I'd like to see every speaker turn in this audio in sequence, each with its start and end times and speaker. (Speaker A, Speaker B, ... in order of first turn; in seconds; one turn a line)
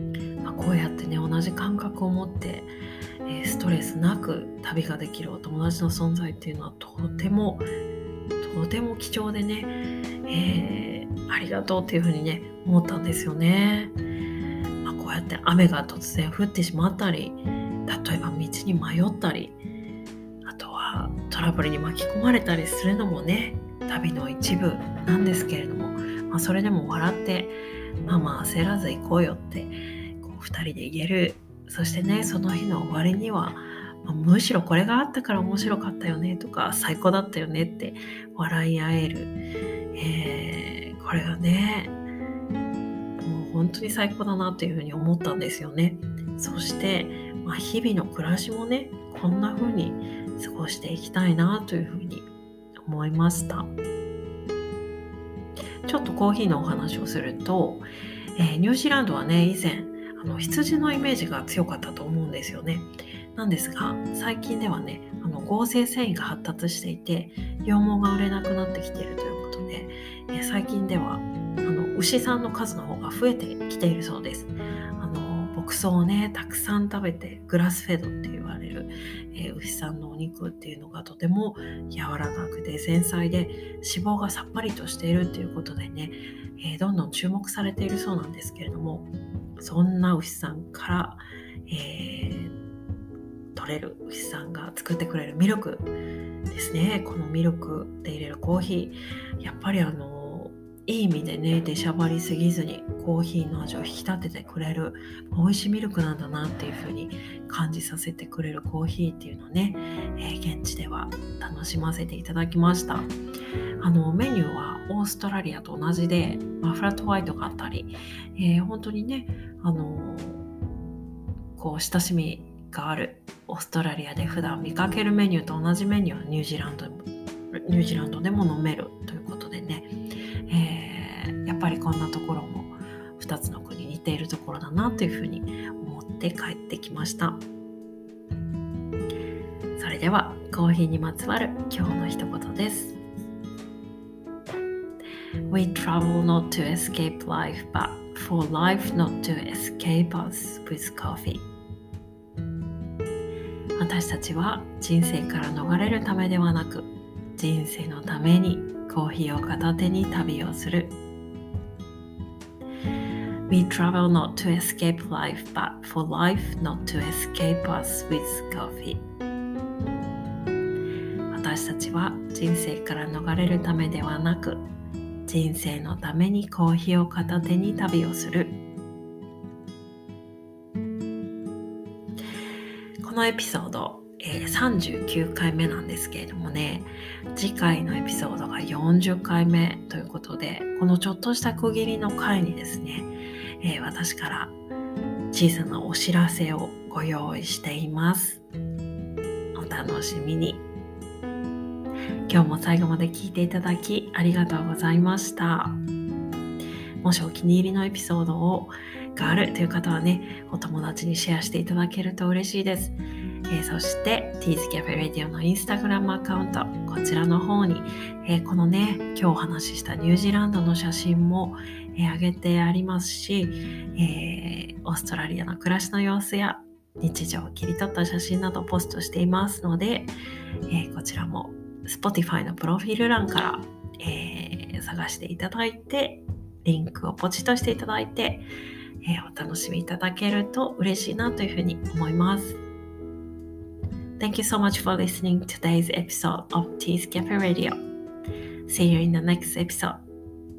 Speaker A: 0.4-2.7
Speaker A: 3.2-7.7
Speaker A: 8.4-14.0
Speaker A: 14.8-19.6
Speaker A: 20.4-39.4
Speaker A: 40.0-42.0
Speaker A: 43.2-52.3
Speaker A: 52.8-53.7
Speaker A: 55.9-92.5
Speaker A: 93.5-95.9
Speaker A: 96.5-113.2
Speaker A: 113.8-120.5
Speaker A: 121.6-129.9
Speaker A: 130.5-137.4
Speaker A: 139.8-143.0
Speaker A: 145.5-151.5
Speaker A: 153.8-161.0
Speaker A: 163.5-169.1
Speaker A: 171.3-174.7
Speaker A: 175.3-178.6
Speaker A: 183.0-194.6
Speaker A: 195.3-198.4
Speaker A: 199.5-200.7
Speaker A: 202.3-205.8
Speaker A: 207.0-230.1
Speaker A: 230.7-238.5
Speaker A: 239.0-242.6
Speaker A: 244.2-247.8
Speaker A: 248.7-250.0